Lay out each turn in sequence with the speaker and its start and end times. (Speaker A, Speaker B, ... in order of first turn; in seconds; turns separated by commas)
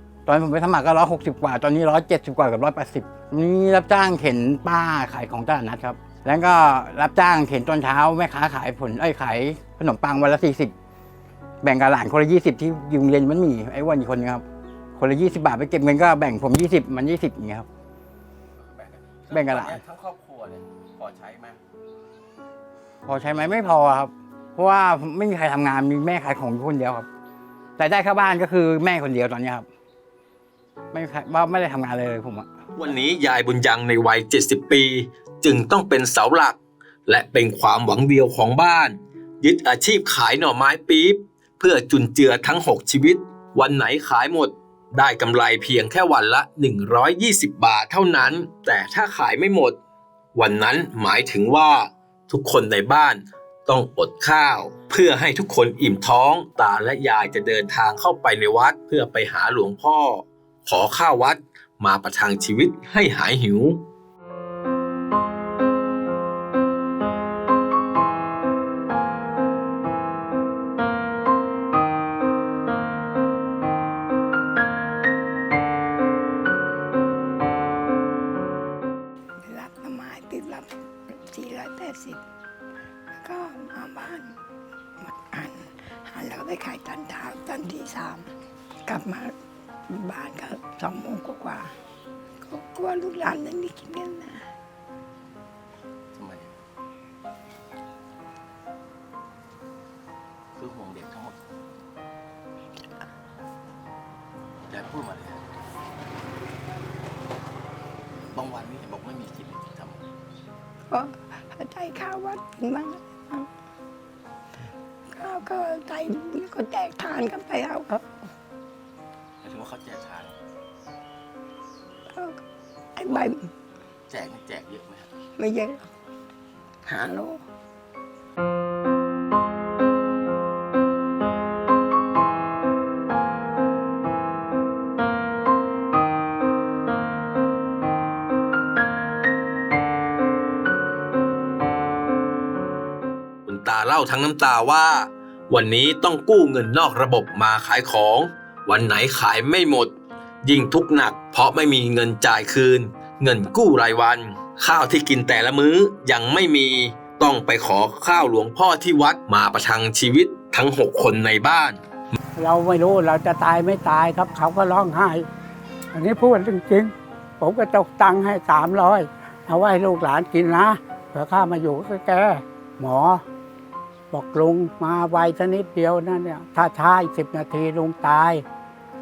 Speaker A: 0.2-10.7, Speaker A: 11.6-14.4, Speaker A: 14.9-17.7, Speaker B: 18.6-21.6, Speaker A: 19.3-19.8, Speaker A: 23.1-27.1, Speaker A: 27.8-29.7, Speaker A: 30.9-32.5, Speaker C: 32.7-49.8, Speaker C: 50.3-63.8, Speaker D: 79.4-82.2, Speaker D: 83.2-84.3, Speaker D: 85.0-88.3, Speaker D: 88.8-89.3, Speaker D: 89.9-91.7, Speaker D: 92.4-94.4, Speaker B: 96.1-96.5, Speaker B: 100.5-101.4, Speaker B: 104.7-105.4, Speaker B: 108.3-110.0, Speaker D: 110.9-113.5, Speaker D: 115.1-118.1, Speaker B: 119.4-120.3, Speaker D: 122.1-122.4, Speaker D: 123.0-123.5, Speaker B: 124.1-125.1, Speaker D: 125.4-125.9, Speaker D: 126.8-127.4, Speaker C: 143.4-161.8, Speaker E: 162.3-165.3, Speaker E: 165.9-173.2, Speaker E: 174.1-178.4